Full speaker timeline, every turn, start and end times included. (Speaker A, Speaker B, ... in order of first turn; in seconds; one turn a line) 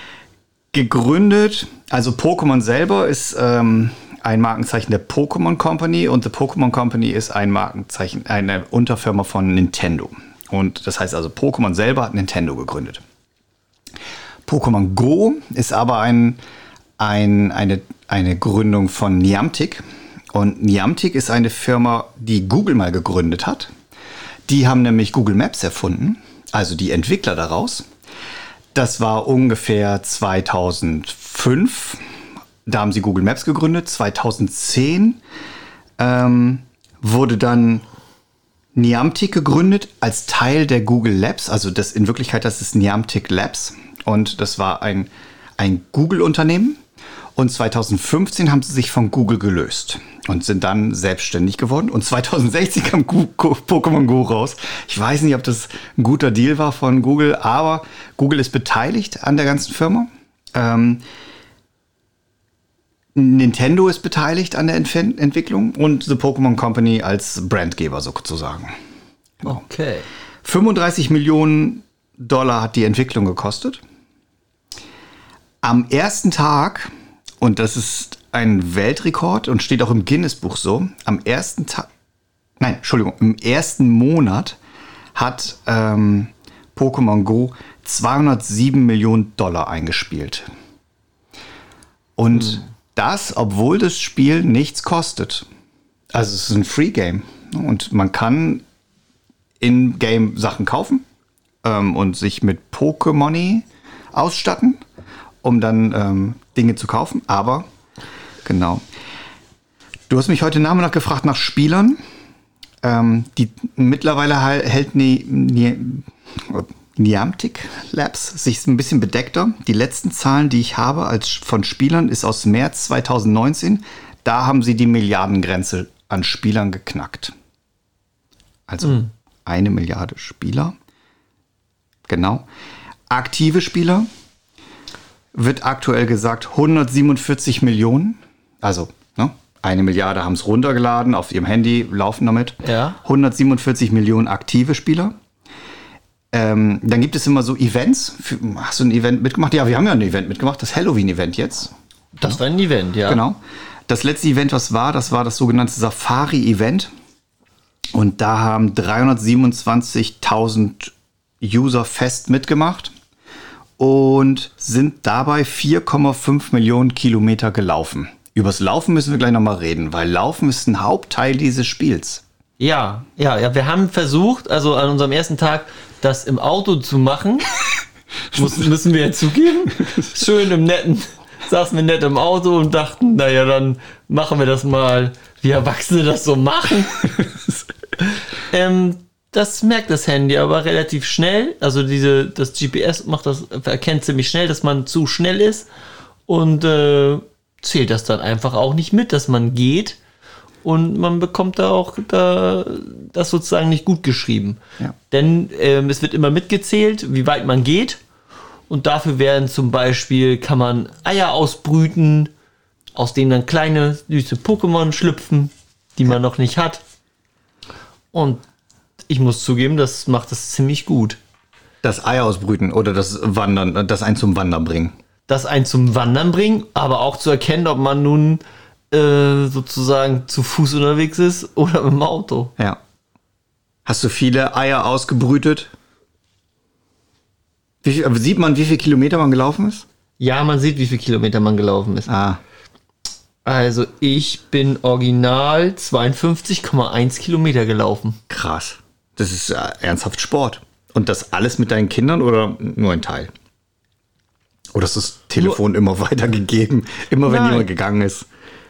Speaker A: 0.7-13.0
Speaker A: 14.5-16.4
Speaker A: 17.0-23.7
Speaker A: 24.5-27.9
Speaker A: 28.7-32.0
Speaker A: 32.7-35.2
Speaker A: 36.0-37.9
Speaker A: 38.8-46.8
Speaker A: 47.4-61.0
Speaker A: 63.1-68.8
Speaker B: 69.5-70.1
Speaker A: 70.4-73.8
Speaker A: 75.6-81.9
Speaker A: 82.6-84.6
Speaker A: 85.2-90.5
Speaker A: 92.2-95.5
Speaker A: 96.1-98.7
Speaker A: 99.6-101.0
Speaker A: 101.6-104.8
Speaker A: 105.4-107.7
Speaker A: 108.5-108.8
Speaker A: 110.1-112.0
Speaker A: 112.8-127.3
Speaker A: 128.7-130.8
Speaker B: 128.8-129.1
Speaker A: 132.1-132.5
Speaker A: 133.1-134.1
Speaker A: 135.3-145.2
Speaker B: 142.6-143.0
Speaker A: 146.3-151.7
Speaker B: 152.2-153.2
Speaker A: 153.1-156.9
Speaker A: 157.9-162.9
Speaker A: 163.8-172.2
Speaker B: 172.6-177.5
Speaker B: 178.3-187.1
Speaker A: 178.3-178.6
Speaker A: 187.1-187.5
Speaker B: 188.4-195.7
Speaker B: 196.3-200.0
Speaker B: 200.6-204.6
Speaker B: 205.1-208.0
Speaker B: 208.7-212.3
Speaker B: 213.0-216.8
Speaker B: 218.1-218.4
Speaker B: 219.1-221.2
Speaker A: 221.8-225.0
Speaker B: 225.3-232.5
Speaker A: 233.8-235.7
Speaker A: 237.8-239.9
Speaker B: 240.2-242.1
Speaker A: 242.1-242.4
Speaker B: 243.4-248.2
Speaker A: 248.3-253.3
Speaker A: 254.7-258.3
Speaker B: 257.2-257.7